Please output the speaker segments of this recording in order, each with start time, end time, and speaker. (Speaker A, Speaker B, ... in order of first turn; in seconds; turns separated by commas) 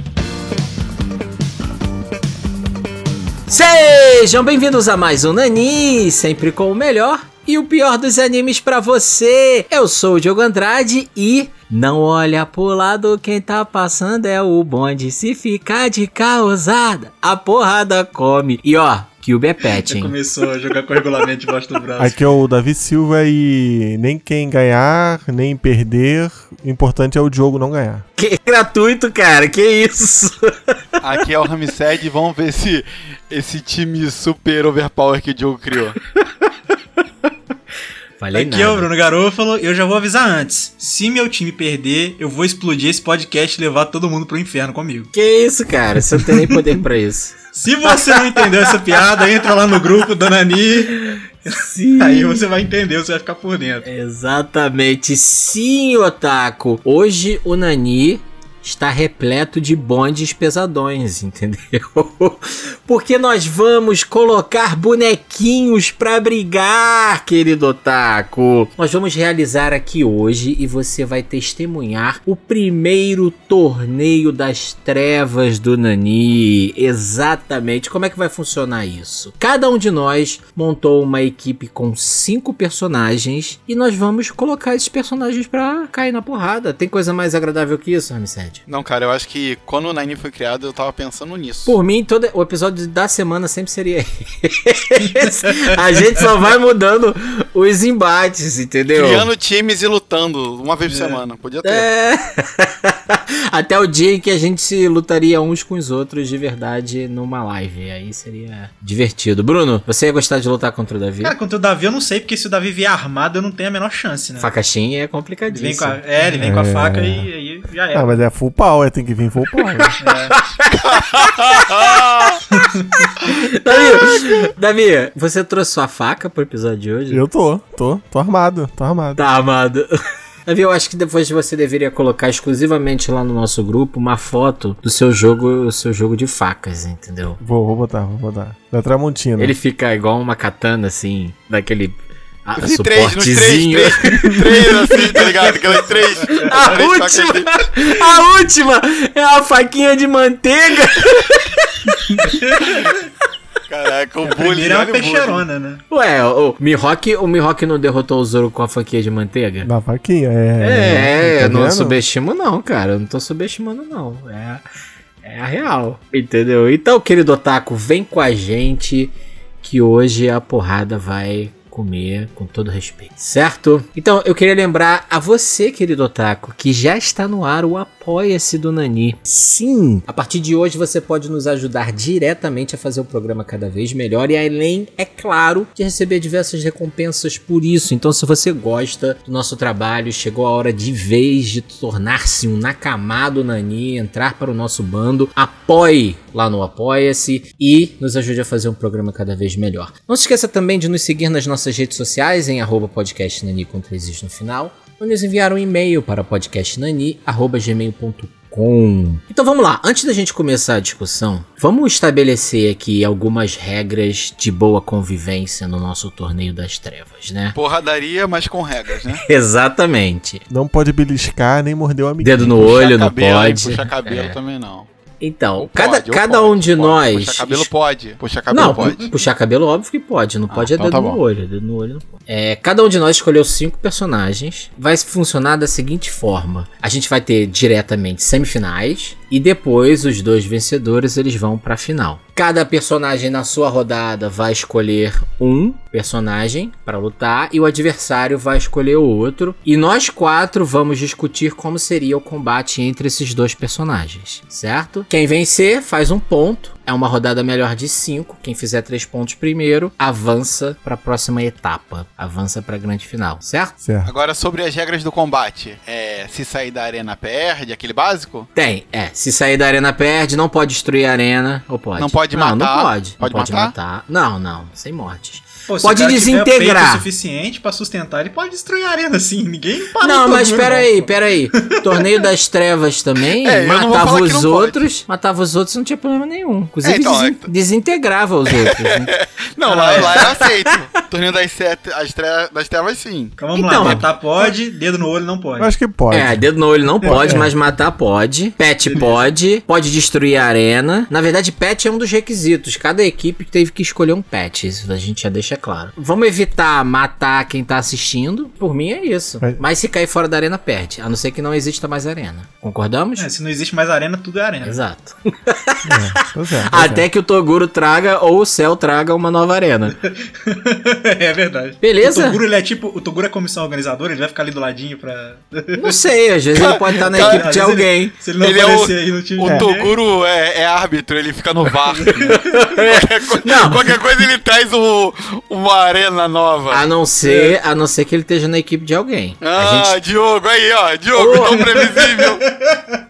Speaker A: 3.5-20.1, Speaker B: 19.7-22.2, Speaker C: 22.0-28.1, Speaker A: 28.2-31.0, Speaker D: 31.0-36.0, Speaker A: 38.2-38.9, Speaker B: 38.3-45.1, Speaker A: 45.1-49.5, Speaker B: 46.3-46.7, Speaker B: 47.5-53.9, Speaker A: 51.1-52.5, Speaker A: 53.8-88.6, Speaker D: 88.7-91.7, Speaker A: 91.7-99.3, Speaker D: 98.9-101.9, Speaker B: 100.9-101.2, Speaker A: 101.6-111.3, Speaker B: 111.2-114.5, Speaker A: 114.4-116.0, Speaker B: 115.5-118.3, Speaker C: 116.4-117.3, Speaker C: 117.9-120.0, Speaker B: 120.0-120.4, Speaker A: 120.3-122.4, Speaker D: 121.2-122.4, Speaker B: 122.5-123.1, Speaker A: 123.1-127.2, Speaker C: 127.1-129.2, Speaker A: 129.2-137.4, Speaker C: 137.4-139.6, Speaker A: 139.4-145.5, Speaker D: 142.6-147.9, Speaker B: 145.7-146.3, Speaker A: 146.2-152.9, Speaker B: 152.2-152.9, Speaker D: 153.7-155.4, Speaker B: 154.2-155.8, Speaker A: 155.9-159.7, Speaker C: 159.6-162.0, Speaker A: 160.6-164.6, Speaker A: 165.2-217.6, Speaker D: 217.6-219.2, Speaker A: 219.1-220.4, Speaker C: 220.5-222.7, Speaker A: 222.2-224.4, Speaker D: 222.6-224.9, Speaker A: 225.2-227.7, Speaker D: 225.6-229.1, Speaker A: 228.5-263.8, Speaker B: 228.6-229.1, Speaker D: 230.5-231.2, Speaker C: 263.8-264.1, Speaker D: 264.0-268.5, Speaker A: 268.6-277.1, Speaker D: 272.0-273.8, Speaker B: 275.7-282.3, Speaker A: 280.0-289.1, Speaker D: 283.4-284.9, Speaker D: 286.8-287.5, Speaker D: 288.5-293.4, Speaker B: 289.6-290.4, Speaker A: 289.9-290.4, Speaker B: 293.4-295.8, Speaker A: 293.5-294.1, Speaker C: 295.6-296.5, Speaker A: 296.1-313.3, Speaker C: 297.0-297.5, Speaker B: 298.8-299.3, Speaker B: 313.2-314.8, Speaker A: 314.6-316.0, Speaker C: 315.9-317.1, Speaker A: 316.6-320.0, Speaker B: 320.0-326.0, Speaker A: 321.8-322.4, Speaker A: 325.7-328.2, Speaker D: 326.6-327.5, Speaker B: 326.7-330.0, Speaker D: 328.4-336.9, Speaker C: 329.4-329.7, Speaker B: 332.0-332.5, Speaker A: 332.2-333.9, Speaker A: 336.7-340.0, Speaker B: 337.2-337.6, Speaker D: 339.4-342.5, Speaker A: 341.1-341.8, Speaker B: 341.9-343.0